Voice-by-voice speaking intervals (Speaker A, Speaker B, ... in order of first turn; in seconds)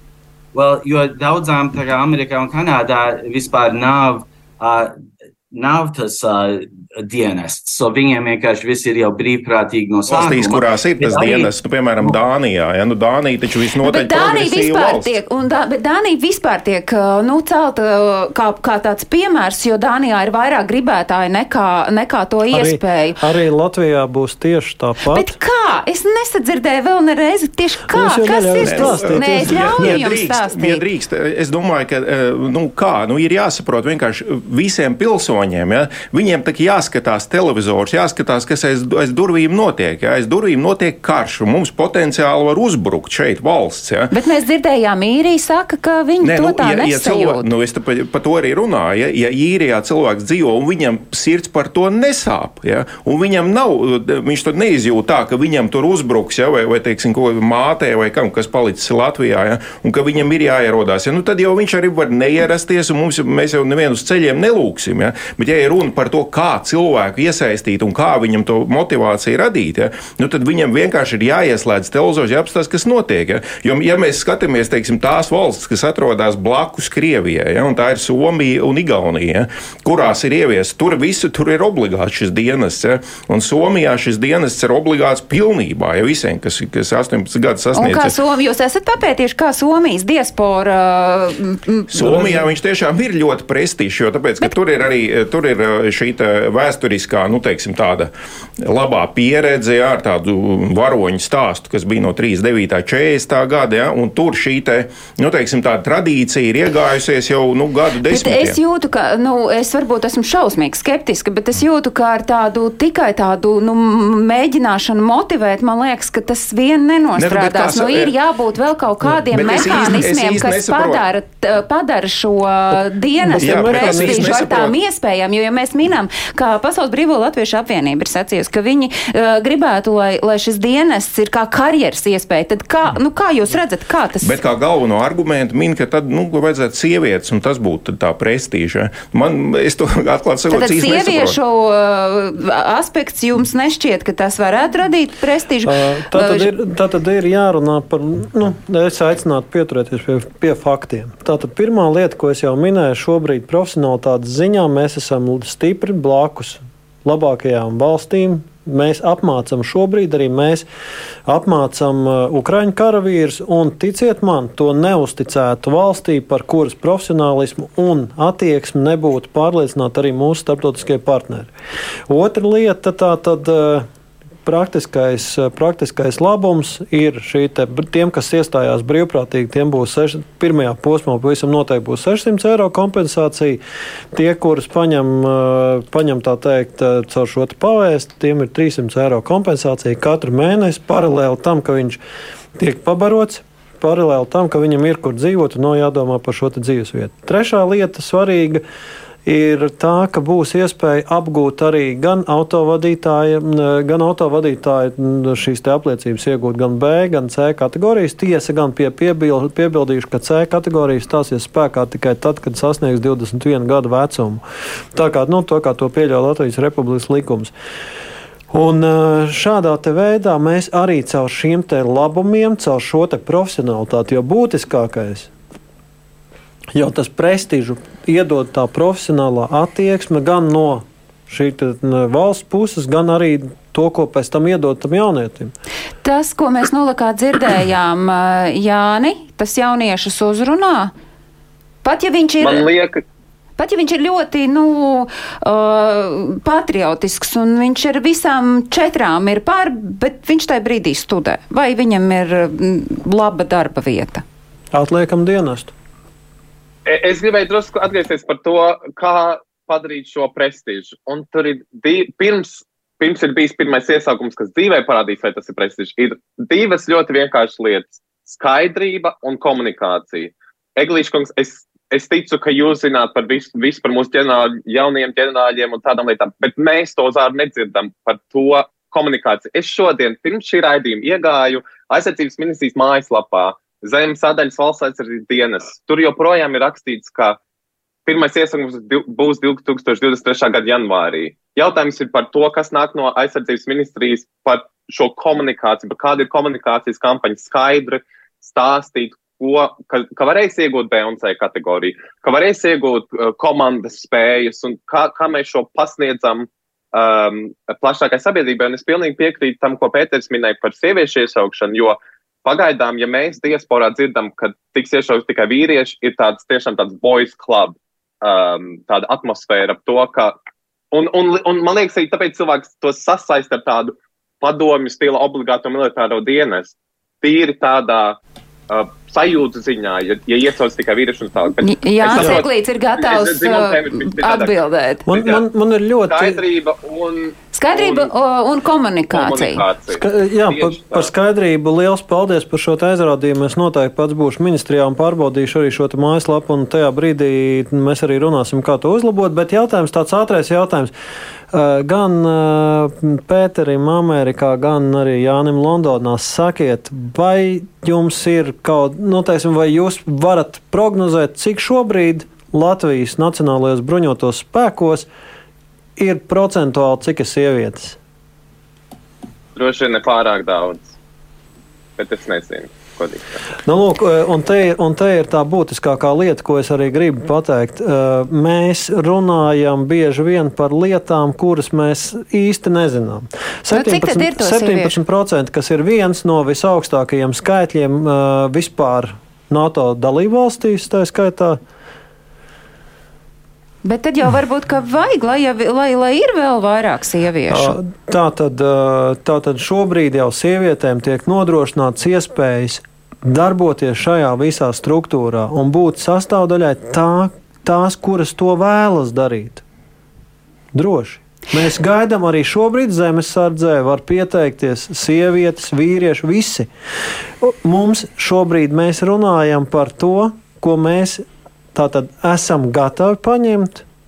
Speaker A: 0.5-4.9, 5.5-12.1
Speaker B: 10.1-15.1, 28.6-44.1, 46.2-88.1, 91.9-98.1, 98.6-108.6, 117.2-118.1, 119.3-121.0, 123.3-124.7, 134.2-141.4
Speaker C: 13.8-23.2, 25.1-30.8, 44.1-47.5, 87.7-92.5, 108.1-134.4, 140.5-146.5, 236.0-240.9, 241.8-242.7, 243.6-254.2, 331.6-335.1, 337.5-339.6, 383.7-385.0, 393.8-397.8
Speaker D: 22.5-25.4, 27.9-30.0, 123.3-124.4, 145.7-160.7, 161.3-171.5, 172.1-173.9, 174.4-183.6, 184.1-192.0, 192.6-198.6, 199.2-214.4, 214.9-217.5, 218.5-225.3, 226.8-235.5, 254.7-255.7, 332.1-332.4, 335.1-336.4, 339.9-350.9, 351.5-365.1, 366.0-368.0, 373.6-391.6, 397.5-409.6, 410.7-416.7, 417.4-423.9
Speaker E: 242.4-243.0, 256.9-287.4, 288.1-320.4, 320.9-328.2, 328.7-334.5, 335.1-335.4, 336.1-338.1, 339.1-341.1, 369.6-370.9, 372.0-373.4